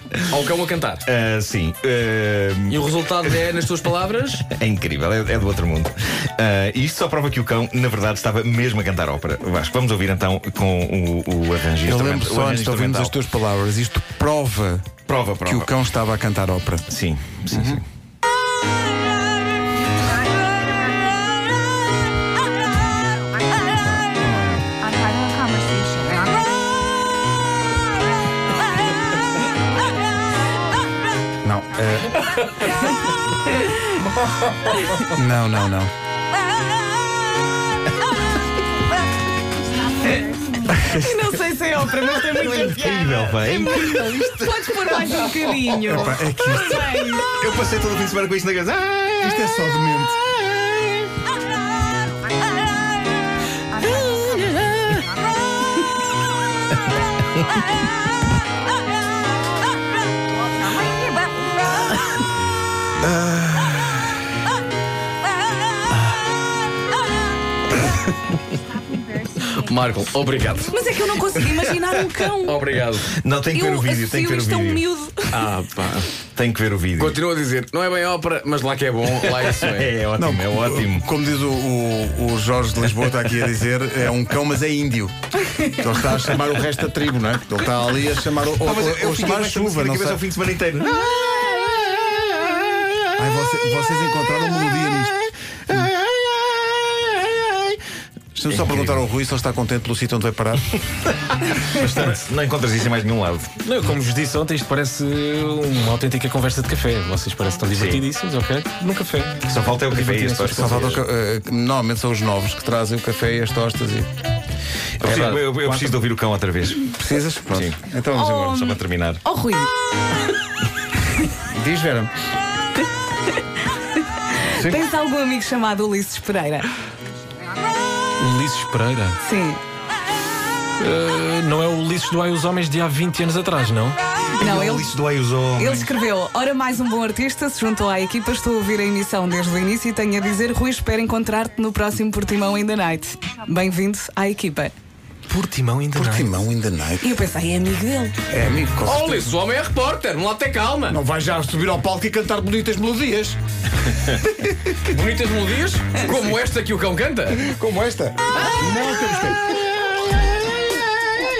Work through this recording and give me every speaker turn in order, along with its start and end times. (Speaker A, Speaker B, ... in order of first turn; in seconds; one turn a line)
Speaker A: 0.2-1.0
Speaker B: 1.0-3.0
Speaker A: 2.7-4.4
Speaker B: 4.4-13.2
Speaker C: 11.8-14.9
Speaker B: 15.1-15.7
Speaker C: 15.4-16.9
Speaker B: 16.9-17.8
Speaker C: 17.5-17.8
Speaker D: 19.8-21.3
Speaker C: 23.7-24.7
Speaker D: 24.8-26.5
Speaker C: 31.4-32.2
Speaker C: 35.0-35.9
Speaker D: 39.8-40.6
Speaker C: 40.7-41.2
Speaker E: 40.9-47.2
Speaker B: 42.2-46.0
Speaker C: 45.9-46.8
Speaker B: 47.1-49.5
Speaker C: 49.2-50.2
Speaker B: 50.4-51.1
Speaker D: 52.2-53.0
Speaker D: 53.7-55.4
Speaker D: 60.4-61.6
Speaker B: 63.1-63.9
Speaker D: 69.1-69.4
Speaker A: 69.5-70.8
Speaker E: 70.7-72.6
Speaker A: 72.4-73.1
Speaker B: 73.0-74.8
Speaker E: 73.5-75.4
Speaker A: 75.3-76.0
Speaker B: 76.3-77.2
Speaker A: 77.0-79.9
Speaker B: 79.2-81.1
Speaker C: 80.2-85.1
Speaker C: 85.7-90.2
Speaker B: 88.5-93.2
Speaker C: 93.2-95.2
Speaker B: 95.7-97.8
Speaker C: 98.3-100.8
Speaker B: 98.5-99.0
Speaker B: 101.2-103.5
Speaker F: 103.6-110.9
Speaker B: 107.7-108.0
Speaker B: 109.4-111.0
Speaker C: 110.5-114.1
Speaker B: 115.0-116.9
Speaker C: 115.0-116.0
Speaker F: 115.1-115.4
Speaker C: 116.8-118.6
Speaker B: 117.5-117.8
Speaker E: 118.1-119.7
Speaker B: 118.4-119.2
Speaker C: 121.5-122.1
Speaker E: 124.4-126.7
Speaker C: 124.5-124.8
Speaker F: 128.2-129.2
Speaker E: 129.2-129.6
Speaker F: 130.8-134.0
Speaker B: 134.3-135.9
Speaker E: 134.4-134.9
Speaker E: 135.6-144.7
Speaker F: 145.3-146.3
Speaker C: 145.9-147.2
Speaker E: 147.0-148.1
Speaker C: 148.3-149.3
Speaker A: 148.8-151.0
Speaker C: 150.9-153.4
Speaker C: 154.1-154.8
Speaker A: 154.8-157.4
Speaker C: 157.3-159.6